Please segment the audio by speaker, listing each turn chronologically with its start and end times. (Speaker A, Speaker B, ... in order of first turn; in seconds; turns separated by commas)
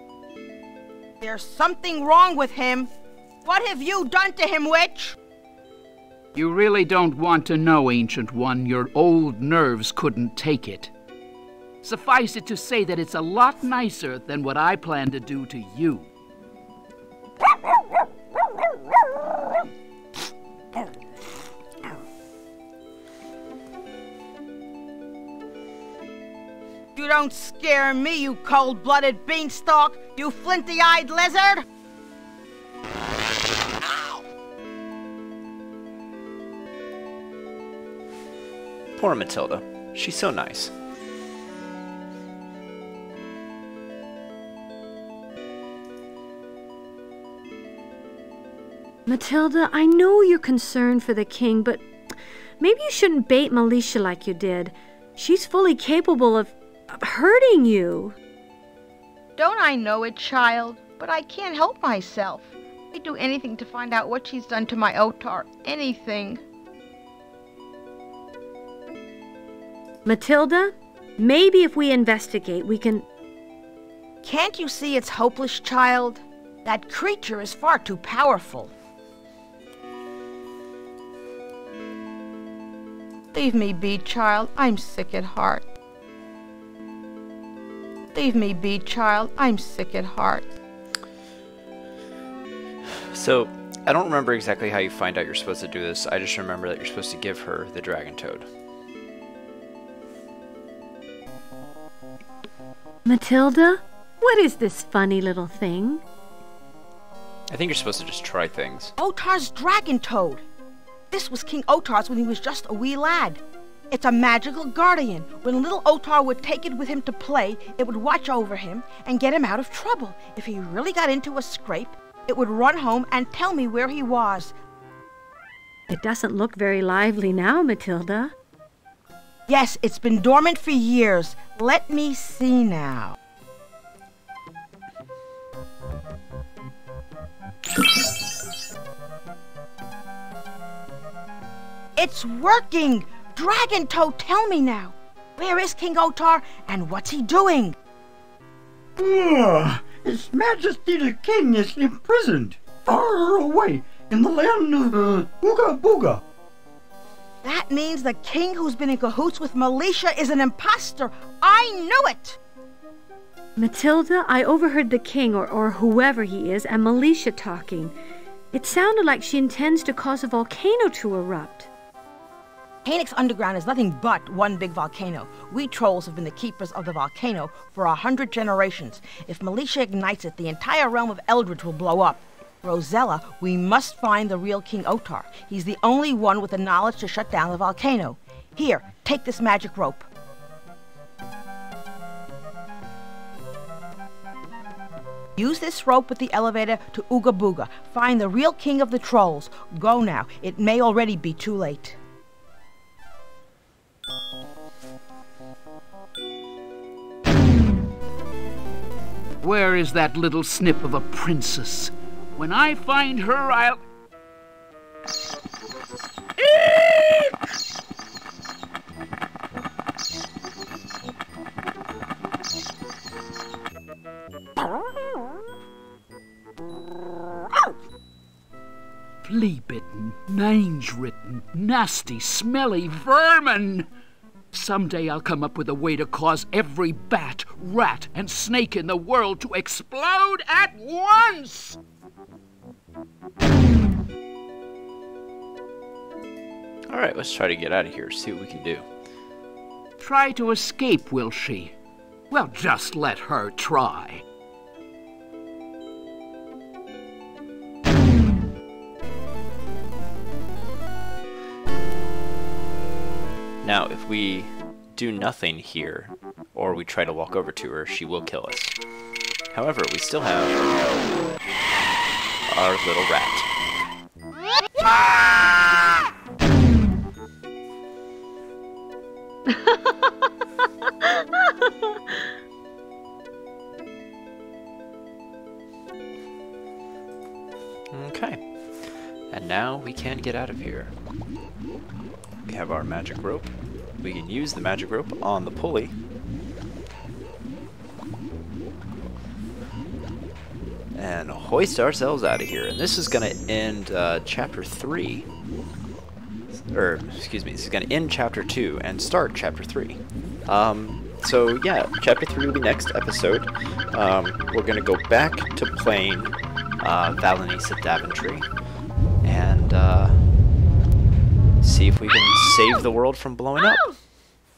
Speaker A: 1.2-2.9, Speaker A: 3.5-5.2, Speaker B: 6.3-10.9, Speaker B: 11.8-16.1, Speaker A: 27.0-31.6, Speaker C: 39.0-40.7, Speaker D: 49.1-51.8, Speaker D: 52.6-58.2, Speaker A: 59.4-66.4, Speaker D: 70.0-73.0, Speaker A: 74.2-78.7, Speaker A: 83.3-85.6, Speaker A: 88.1-90.5, Speaker C: 93.1-98.5, Speaker D: 103.0-106.0, Speaker C: 107.5-108.9, Speaker A: 109.0-110.4, Speaker A: 111.1-124.5, Speaker D: 125.9-128.3, Speaker A: 129.5-133.2, Speaker A: 142.0-147.8, Speaker E: 149.0-156.2, Speaker A: 157.4-162.4, Speaker D: 163.6-167.9, Speaker D: 168.5-171.7, Speaker A: 172.8-190.1, Speaker A: 195.4-202.0, Speaker B: 209.4-213.8, Speaker B: 216.4-217.3, Speaker B: 229.2-233.9, Speaker B: 234.5-241.8, Speaker C: 246.9-248.8, Speaker B: 250.0-251.8, Speaker B: 252.3-254.2, Speaker C: 263.6-268.8, Speaker C: 269.5-271.1, Speaker C: 272.5-273.5, Speaker D: 279.5-279.8, Speaker C: 287.9-290.9, Speaker C: 292.4-295.9, Speaker C: 300.9-305.3, Speaker C: 306.5-318.5, Speaker C: 319.2-320.3, Speaker C: 321.6-323.9